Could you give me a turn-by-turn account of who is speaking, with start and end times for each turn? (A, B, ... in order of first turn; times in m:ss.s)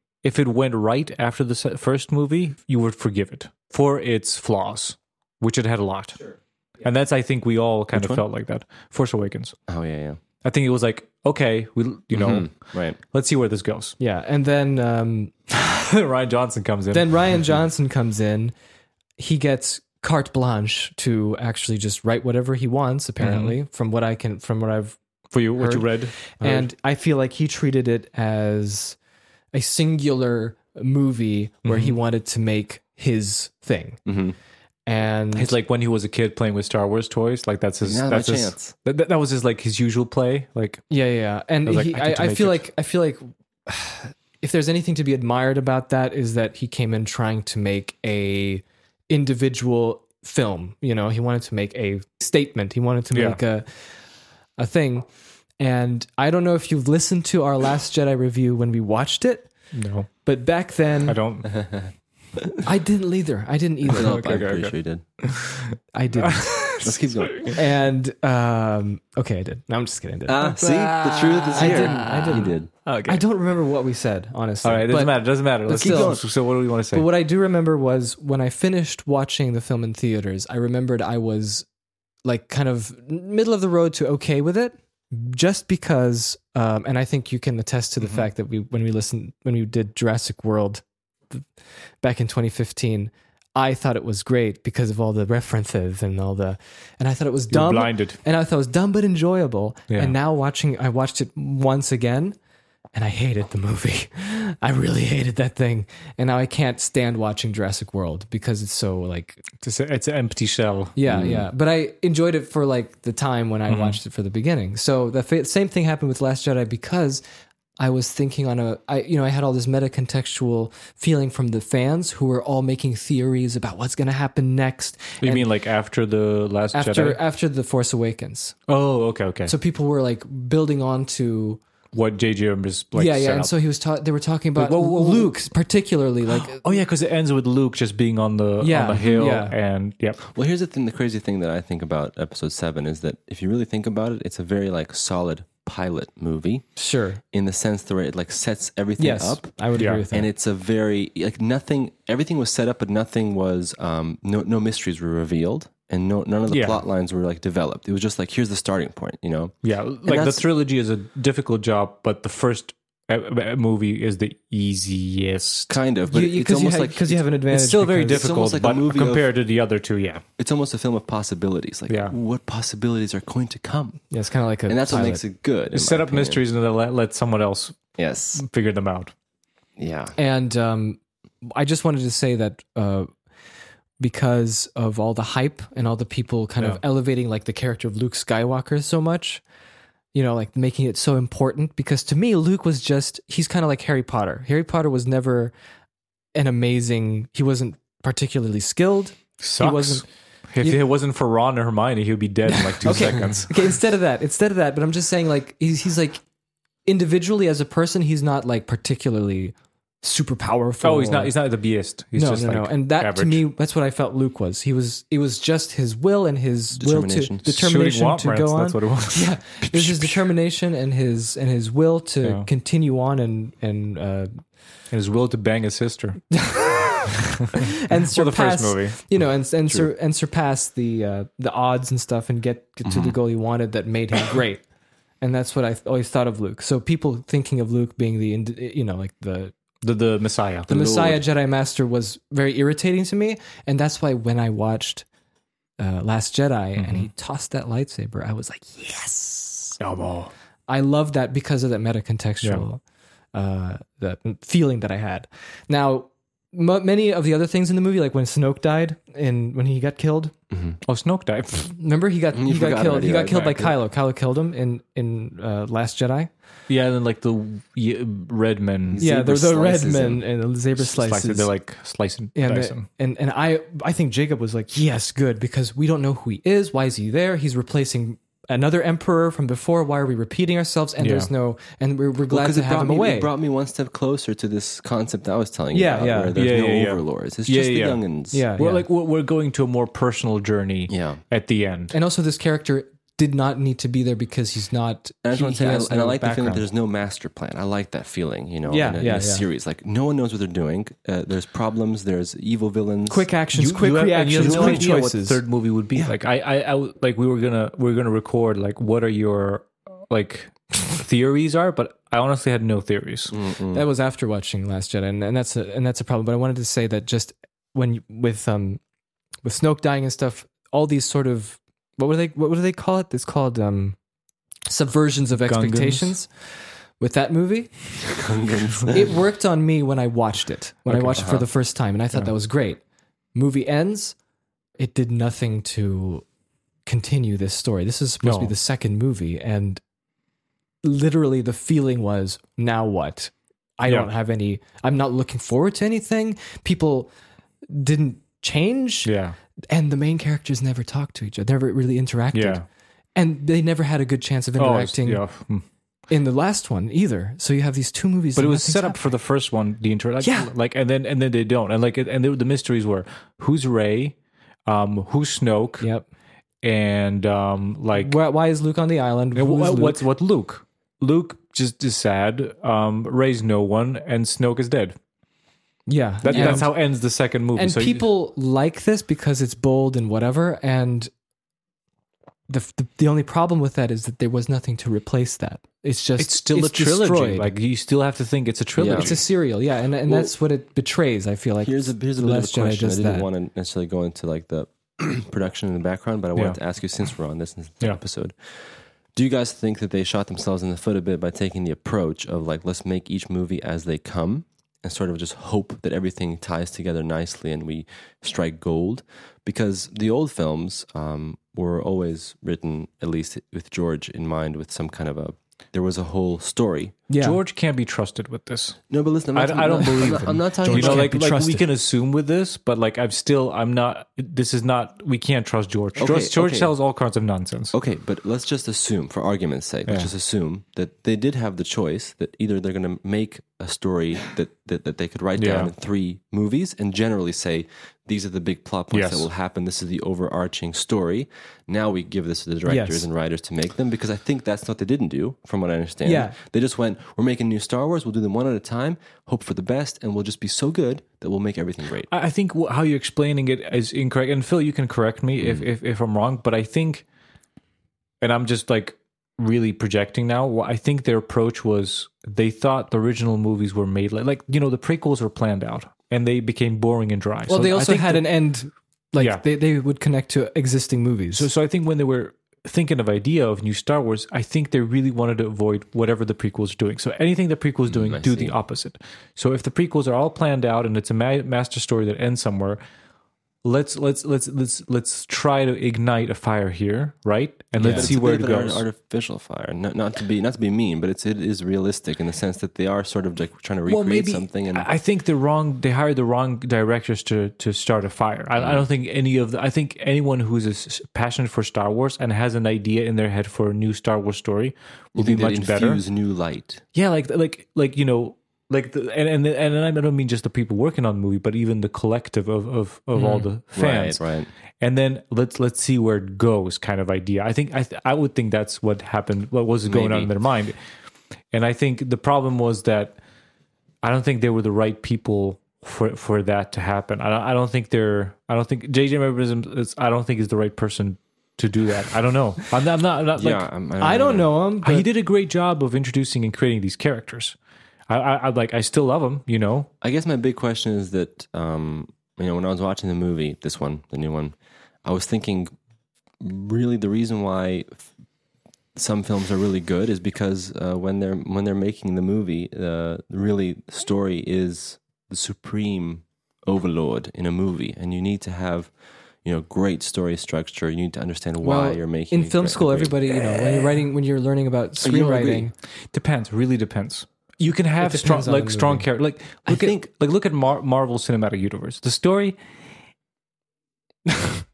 0:00.2-0:06.2 A
0:06.8-0:09.6 A
0:07.9-0:08.2 B
0:09.7-0:10.2 B
0:10.4-0:14.0 A
0:12.1-0:13.0 B
0:14.0-0:15.3 C
0:15.5-0:17.1 A
0:16.9-0:18.5 C
0:19.2-0:25.0 C
0:23.2-0:23.5 A
0:25.3-0:26.7 A
0:25.5-0:29.0 C
0:29.5-0:34.0 C
0:31.6-0:32.0 A
0:34.1-0:34.4 B
0:34.9-0:35.6 C
0:35.4-0:40.9 A
0:37.8-0:38.7 B
0:40.9-0:53.9 C
0:41.6-0:42.6 A
0:53.1-0:53.4 A
0:54.6-0:55.1 C
0:55.6-0:59.5 C
0:59.7-1:00.1 A
1:00.2-1:01.2 C
1:01.1-1:01.6 A
1:02.6-1:04.6 C
1:03.9-1:05.0 B
1:03.9-1:05.6 A
1:05.9-1:10.6 C
1:06.2-1:07.5 A
1:06.8-1:07.5 B
1:10.3-1:12.7 B
1:10.6-1:13.2 A
1:11.5-1:16.2 C
1:14.6-1:17.1 A
1:15.7-1:16.2 B
1:16.9-1:21.6 C
1:22.2-1:31.4 C
1:32.0-1:42.4 C
1:37.5-1:38.2 A
1:39.9-1:40.1 A
1:42.9-1:49.5 C
1:49.6-1:51.0 A
1:51.0-1:57.2 C
1:51.1-1:51.4 B
1:53.7-1:54.0 A
1:57.8-2:05.4 C
2:05.2-2:07.2 A
2:06.7-2:08.6 C
2:08.7-2:09.5 A
2:09.5-2:11.6 C
2:11.9-2:13.5 A
2:12.9-2:16.8 C
2:14.6-2:15.4 A
2:16.3-2:20.2 A
2:18.6-2:19.5 C
2:20.3-2:26.6 B
2:26.8-2:27.2 C
2:27.3-2:29.5 B
2:29.0-2:30.3 C
2:29.8-2:30.0 A
2:30.1-2:39.5 B
2:36.5-2:36.8 A
2:39.6-2:45.8 A
2:45.7-2:47.2 B
2:46.1-2:48.3 C
2:47.5-2:50.2 A
2:48.0-2:49.3 B
2:50.4-2:54.0 B
2:51.9-2:52.1 A
2:54.1-2:55.2 C
2:54.7-2:56.4 B
2:55.7-2:59.1 A
2:58.0-2:58.4 B
2:59.8-3:00.1 B
3:00.2-3:03.1 C
3:04.0-3:09.4 C
3:10.1-3:15.5 C
3:16.4-3:20.0 C
3:19.4-3:23.6 A
3:22.5-3:26.2 C
3:26.9-3:31.3 C
3:30.8-3:33.4 A
3:32.1-3:44.3 C
3:36.8-3:37.4 B
3:37.4-3:40.2 A
3:44.9-3:46.4 A
3:46.3-3:54.6 C
3:47.5-3:49.0 A
3:52.8-3:53.1 B
3:55.2-3:59.5 C
3:59.8-4:00.7 A
4:00.7-4:01.2 B
4:00.7-4:05.1 C
4:05.8-4:09.8 C
4:06.8-4:07.1 A
4:09.8-4:10.3 A
4:10.7-4:12.8 C
4:13.3-4:20.3 C
4:20.5-4:20.8 B
4:20.8-4:21.7 A
4:21.7-4:26.3 C
4:22.3-4:23.8 B
4:26.7-4:29.0 A
4:28.9-4:30.2 B
4:29.0-4:31.5 C
4:30.8-4:32.8 A
4:32.4-4:43.3 C
4:41.0-4:41.3 A
4:42.3-4:48.4 B
4:45.7-4:46.4 C
4:46.4-4:48.0 A
4:48.3-4:48.8 C
4:48.6-4:51.9 A
4:50.9-4:51.2 B
4:51.9-4:56.6 C
4:55.2-5:03.3 B
4:58.6-4:59.4 C
5:03.1-5:05.4 C
5:03.5-5:13.4 A
5:04.4-5:04.9 B
5:13.3-5:13.8 B
5:13.7-5:18.8 C
5:19.4-5:24.0 C
5:24.7-5:26.3 C
5:25.4-5:26.1 A
5:27.0-5:27.7 C
5:28.0-5:29.1 B
5:28.9-5:32.8 C
5:30.9-5:31.2 A
5:31.2-5:31.4 B
5:33.4-5:34.2 C
5:34.8-5:36.2 C
5:36.9-5:39.8 C
5:38.2-5:38.5 A
5:40.8-5:47.1 C
5:47.7-5:49.1 C
5:49.0-5:49.4 A
5:49.7-5:52.6 C
5:52.3-5:52.6 A
5:53.2-5:55.2 C
5:54.6-5:55.6 A
5:56.1-5:59.0 C
5:58.4-6:04.2 A
6:00.2-6:00.5 C
6:04.7-6:05.9 A
6:05.8-6:06.1 C
6:06.6-6:08.1 A
6:08.0-6:10.0 C
6:09.4-6:15.0 A
6:15.9-6:16.7 C
6:16.2-6:18.0 A
6:16.3-6:16.6 B
6:17.6-6:21.1 C
6:22.5-6:27.5 C
6:26.2-6:29.2 A
6:28.8-6:29.2 B
6:28.9-6:33.3 C
6:30.1-6:30.3 B
6:31.6-6:38.3 B
6:39.1-6:56.9 B
6:57.1-6:57.4 C
6:57.2-6:58.8 A
6:58.9-7:01.1 B
6:59.3-7:07.7 A
7:00.6-7:01.6 C
7:06.0-7:06.7 B
7:07.7-7:32.1 B
7:15.4-7:15.7 A
7:18.9-7:19.3 A
7:22.6-7:23.1 C
7:26.0-7:26.4 C
7:32.1-7:37.0 A
7:38.2-7:48.3 A
7:47.5-7:51.5 C
7:51.3-8:02.8 A
7:57.9-7:58.5 B
8:03.6-8:08.8 A
8:07.8-8:08.1 C
8:07.8-8:14.9 B
8:13.9-8:26.0 A
8:18.6-8:18.9 B
8:25.1-8:26.8 B
8:26.9-8:34.2 A
8:33.2-8:34.5 B
8:34.8-8:40.8 A
8:39.9-8:40.3 B
8:41.5-8:43.2 A
8:44.0-8:53.7 A
8:53.4-8:54.5 B
8:54.0-8:55.1 C
8:54.8-8:57.6 A
8:58.1-8:59.9 A
9:00.0-9:05.7 B
9:06.4-9:08.0 B
9:09.0-9:18.9 B
9:19.4-9:23.8 B
9:21.6-9:25.7 C
9:25.0-9:25.7 B
9:26.1-9:32.6 A
9:28.0-9:29.0 C
9:29.7-9:30.0 B